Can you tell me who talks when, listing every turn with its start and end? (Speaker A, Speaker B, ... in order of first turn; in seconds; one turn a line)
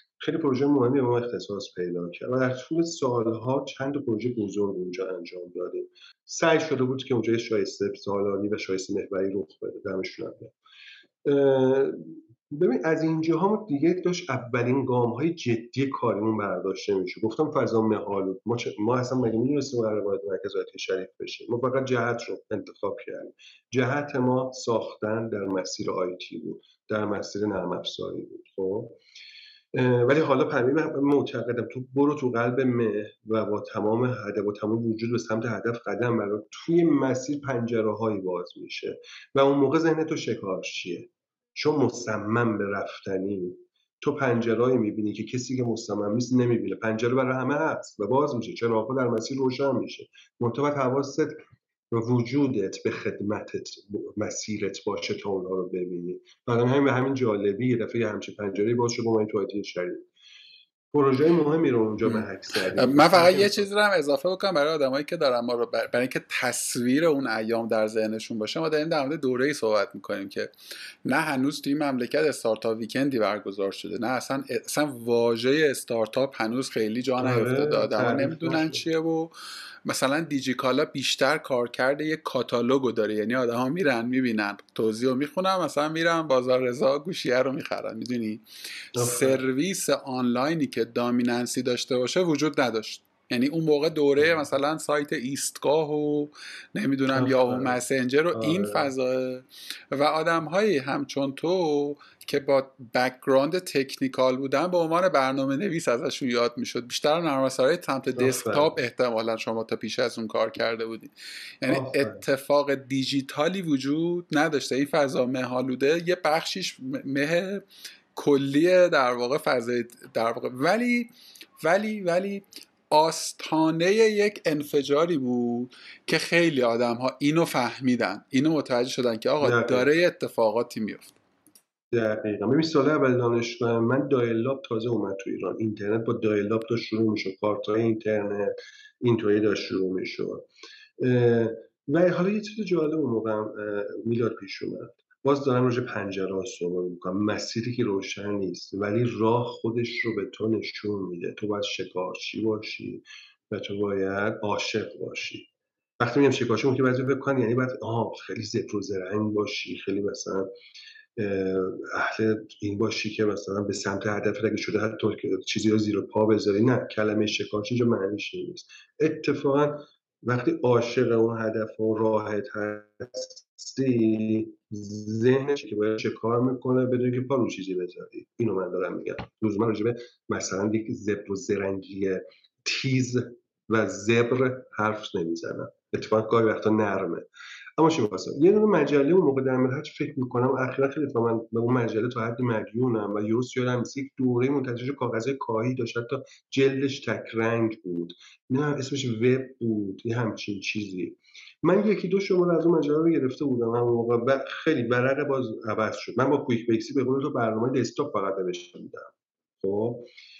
Speaker A: 0.2-10.5
Speaker A: 11.2-29.0
Speaker A: 29.7-51.4
Speaker A: 51.9-60.1
Speaker A: 60.9-63.6
Speaker B: 62.0-70.5
Speaker B: 71.0-79.3
Speaker A: 77.2-78.8
Speaker B: 79.8-88.4
Speaker A: 89.0-89.4
Speaker B: 89.0-117.6
Speaker A: 97.1-97.8
Speaker A: 98.3-98.9
Speaker A: 108.1-108.7
Speaker A: 111.7-112.2
Speaker B: 118.2-131.2
Speaker A: 129.4-129.9
Speaker A: 131.9-140.5
Speaker A: 141.0-155.5
Speaker A: 156.0-160.5
Speaker A: 161.2-210.1